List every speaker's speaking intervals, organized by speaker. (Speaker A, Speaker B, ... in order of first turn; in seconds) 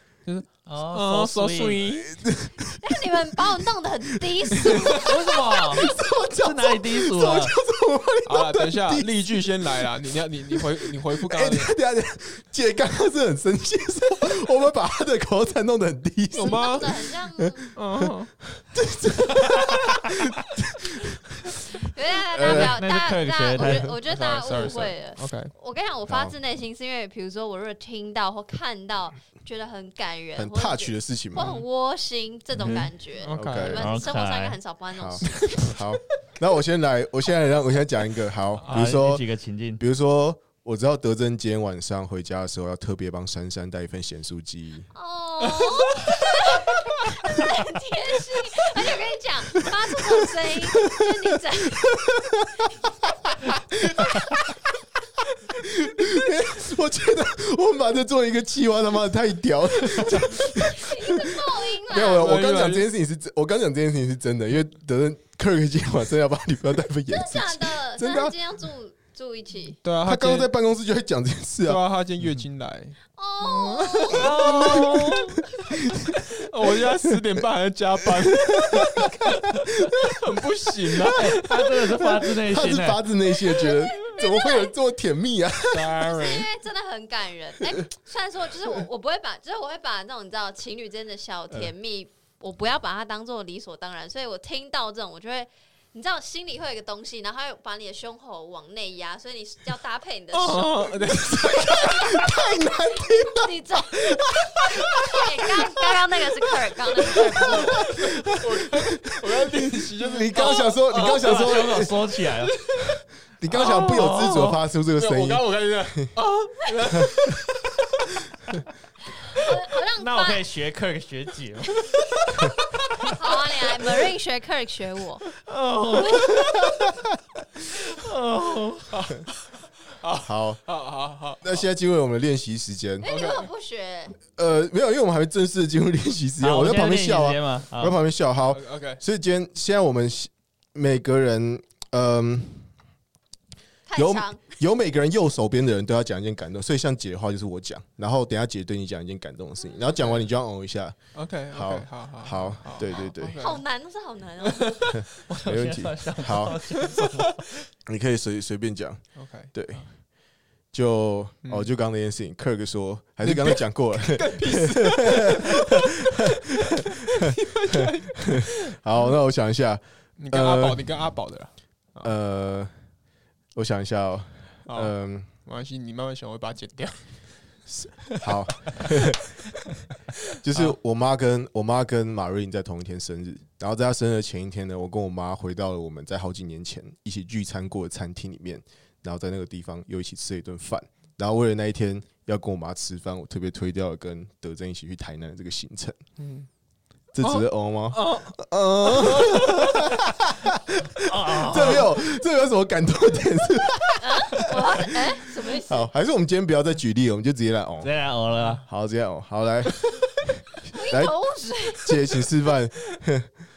Speaker A: 0.2-2.2, 8.2-11.7, 16.3-16.9, 17.8-18.3, 23.6-25.5, 31.4-31.6, 33.2-33.8, 38.6-38.9, 62.2-62.9, 69.8-70.5, 71.6-75.2, 76.2-82.2, 85.7-86.5, 100.3-102.3, 107.0-114.3, 114.9-118.0, 128.9-131.7, 133.0-133.5, 138.4-139.0, 150.0-150.2, 151.1-153.6, 154.6-155.0, 159.2-159.9, 161.4-161.7, 163.2-165.9, 166.6-168.7, 170.2-172.1, 174.7-178.2, 196.2-196.5, 197.2-198.3, 198.8-199.2
Speaker B: 0.6-1.8, 4.9-5.8, 6.4-7.5, 22.4-23.9, 32.6-32.9, 33.8-34.6, 38.7-39.8, 74.1-75.4, 81.1-83.0, 110.9-112.5, 113.7-114.6, 119.9-122.2, 125.4-126.7, 127.7-129.0, 136.4-138.0, 155.2-157.5, 201.0-201.9, 207.8-208.6
Speaker C: 2.1-3.3, 4.4-5.0, 5.7-9.8, 11.2-17.8, 18.5-21.6, 22.3-22.8, 26.1-26.4, 30.3-31.6, 33.4-33.8, 34.9-39.3, 39.8-44.9, 52.0-52.4, 53.5-54.4, 55.6-68.3, 70.0-71.8, 78.7-79.3, 82.5-86.0, 101.9-104.9, 107.5-108.1, 108.9-112.0, 113.4-116.1, 130.2-130.6, 131.4-133.1, 134.3-142.7, 143.9-151.0, 151.5-153.4, 154.9-156.7, 157.8-159.8, 160.7-165.6, 166.2-166.6, 168.6-170.9, 172.0-172.7, 173.5-175.3, 178.2-179.3, 180.4-196.0, 197.1-200.5, 201.2-207.9, 208.5-211.2, 211.8-213.3
Speaker D: 2.8-5.9, 16.3-17.7, 21.8-35.7, 44.9-51.9, 60.6-62.2, 67.1-69.8, 73.1-74.3, 83.6-84.7, 86.0-101.1, 101.7-107.9, 110.4-110.8, 119.3-120.4, 123.1-125.2, 133.0-134.2, 143.8-144.5, 153.4-154.8, 204.0-205.9, 210.7-212.2